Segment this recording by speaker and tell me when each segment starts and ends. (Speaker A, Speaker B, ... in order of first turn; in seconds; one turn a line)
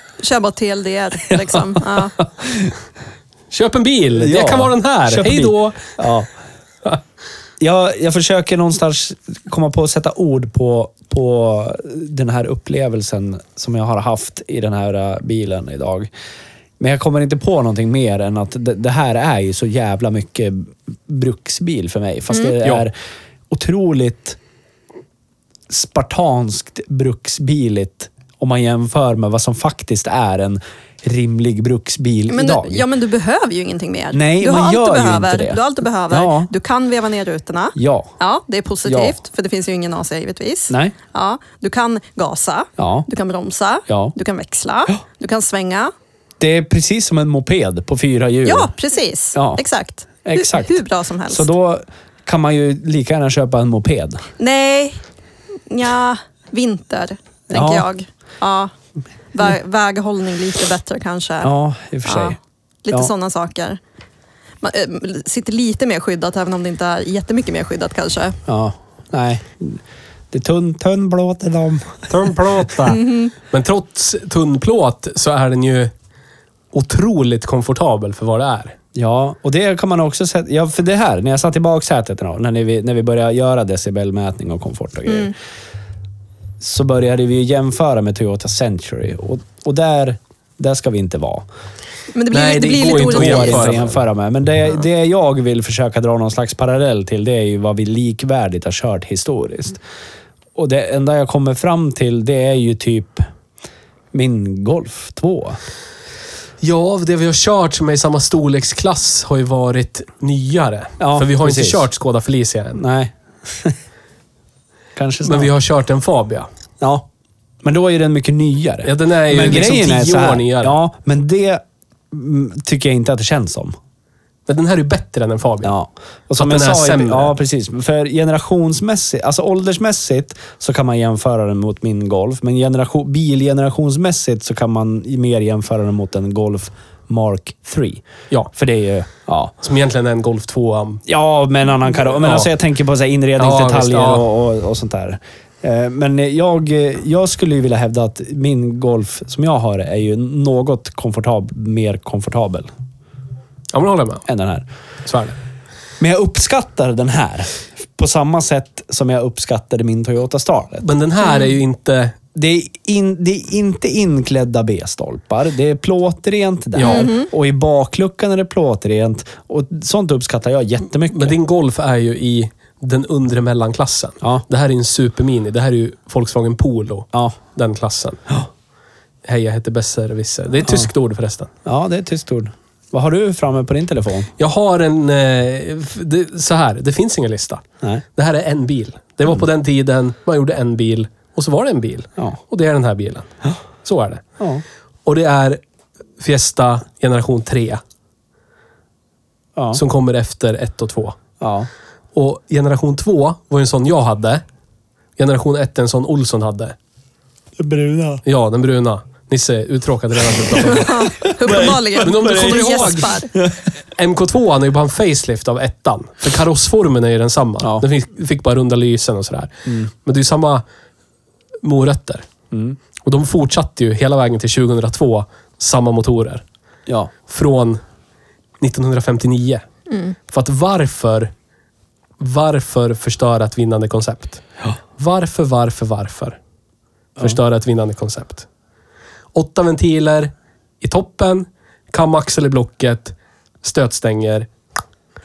Speaker A: 0.2-2.1
Speaker B: 2.4-2.7
Speaker C: 3.5-6.0
Speaker B: 4.2-6.3
Speaker B: 7.6-16.1
Speaker B: 16.8-22.9
Speaker C: 22.6-22.9
Speaker B: 23.5-24.4
Speaker B: 25.7-32.9
Speaker A: 32.3-45.9
Speaker B: 34.1-36.5
Speaker B: 37.8-38.1
Speaker B: 38.9-39.1
Speaker B: 40.7-41.0
Speaker B: 42.8-43.1
Speaker B: 43.9-44.1
Speaker B: 46.4-48.7
Speaker A: 48.5-51.5
Speaker B: 49.4-49.6
Speaker B: 50.2-54.2
Speaker A: 54.4-55.0
Speaker A: 55.7-58.7
Speaker B: 57.5-57.9
Speaker A: 59.3-61.5
Speaker B: 61.4-62.4
Speaker A: 62.0-63.8
Speaker A: 64.6-68.4
Speaker B: 68.5-72.4
Speaker C: 72.1-75.9
Speaker A: 72.9-73.3
Speaker C: 76.7-78.8
Speaker B: 79.0-85.3
Speaker A: 85.1-85.3
Speaker B: 86.6-91.5
Speaker A: 92.1-93.7
Speaker C: 92.3-94.0
Speaker B: 92.4-99.8
Speaker B: 100.5-103.2
Speaker B: 104.1-105.6
Speaker C: 106.6-112.8
Speaker B: 111.0-111.9
Speaker B: 112.8-113.8
Speaker B: 115.0-115.5
Speaker C: 115.2-116.5
Speaker B: 116.8-117.1
Speaker B: 117.6-123.8
Speaker C: 118.8-120.8
Speaker C: 124.5-125.8
Speaker B: 125.6-139.5
Speaker C: 126.4-127.3
Speaker C: 139.6-141.0
Speaker B: 141.1-152.7
Speaker C: 141.9-142.5
Speaker C: 143.4-144.3
Speaker C: 153.7-154.3
Speaker B: 154.3-154.7
Speaker C: 155.1-155.4
Speaker B: 156.0-160.9
Speaker C: 160.8-162.2
Speaker B: 162.3-171.4
Speaker C: 166.8-167.1
Speaker A: 166.8-167.3
Speaker C: 171.1-178.2
Speaker C: 179.2-181.5
Speaker B: 180.6-180.9
Speaker B: 181.7-184.3
Speaker C: 184.4-187.6
Speaker C: 188.2-193.3
Speaker C: 193.8-194.2
Speaker B: 194.4-194.6
Speaker C: 195.1-195.6
Speaker C: 196.2-197.8
Speaker B: 199.6-199.8
Speaker C: 199.7-201.2
Speaker B: 201.4-201.7
Speaker C: 202.1-204.4
Speaker C: 205.2-206.8
Speaker B: 207.6-208.2
Speaker C: 208.3-213.2
Speaker A: 210.6-213.3
Speaker B: 211.4-213.6
Speaker C: 213.9-220.7
Speaker B: 217.6-217.9
Speaker C: 221.6-222.3
Speaker B: 222.5-222.8
Speaker C: 223.0-226.4
Speaker B: 226.9-227.1
Speaker C: 227.3-227.8
Speaker C: 228.6-229.6
Speaker C: 230.3-231.3
Speaker C: 232.2-234.4
Speaker C: 235.0-236.4
Speaker C: 237.2-238.5
Speaker C: 239.3-244.5